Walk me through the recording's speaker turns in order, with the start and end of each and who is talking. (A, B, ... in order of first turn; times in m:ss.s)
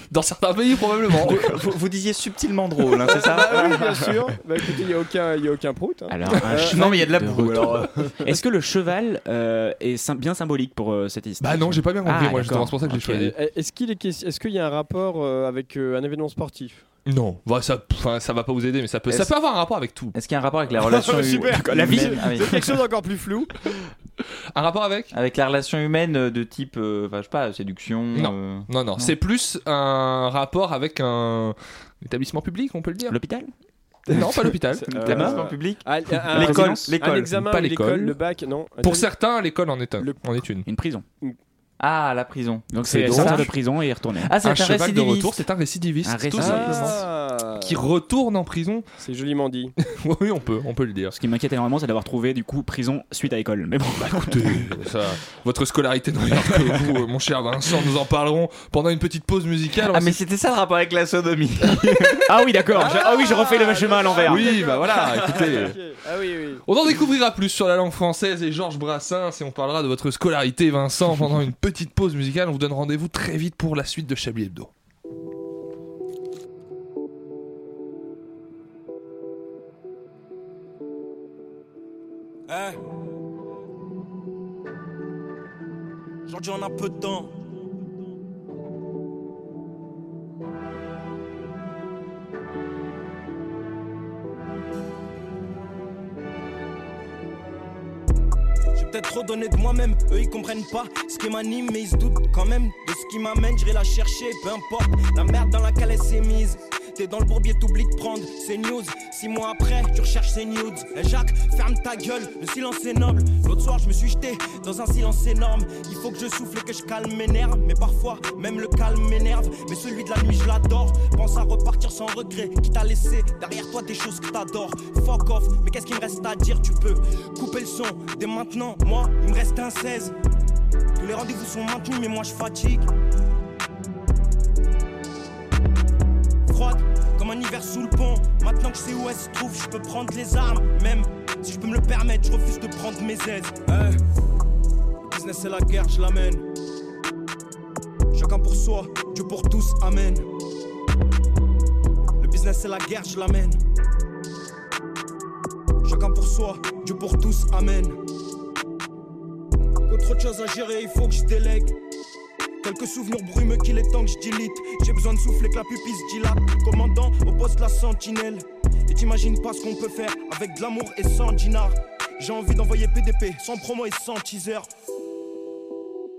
0:00.1-0:01.6 A
0:01.2-0:03.8 B
0:03.0-0:06.8 C
0:03.8-0:04.2 D
0:06.1-0:13.3 D
0:06.5-0:08.2 B
0:11.4-0:13.3 A
0:13.2-0:16.8 C
0:17.1-0:20.1 A
0:19.1-0:19.3 B
0:20.1-0:22.6 B
0:20.8-0:23.8 C
0:21.6-0:22.3 D
0:24.5-0:25.1 A
0:25.1-0:29.1 B
0:28.1-0:33.2 A
0:33.1-0:33.5 D
0:34.1-0:34.4 B
0:34.1-0:34.9 A
0:34.7-0:39.1 C
0:35.0-0:37.3 B
0:35.1-0:35.4 D
0:36.3-0:36.9 D
0:37.3-0:38.2 A
0:38.8-0:40.7 A
0:40.6-0:41.0 D
0:41.8-0:43.5 B
0:42.7-0:44.4 D
0:43.0-0:43.5 A
0:44.2-0:45.4 B
0:44.4-0:47.0 A
0:46.0-0:47.0 D
0:46.4-0:47.8 C
0:47.6-0:48.9 A
0:49.0-0:49.7 C
0:49.8-0:51.2 A
0:51.1-0:54.7 D
0:54.0-1:00.2 A
0:59.9-1:02.3 B
1:02.2-1:04.6 D
1:02.8-1:06.6 C
1:04.2-1:05.8 A
1:06.6-1:14.7 A
1:22.5-1:22.8 E
1:26.3-1:27.4 E
1:38.8-2:10.1 E
2:11.0-2:12.9 E
2:16.5-2:24.0 E
2:25.0-2:26.5 E
2:28.1-2:30.3 E
2:32.2-2:33.6 E
2:35.8-2:38.0 E
2:39.8-2:41.8 E
2:42.6-2:54.7 E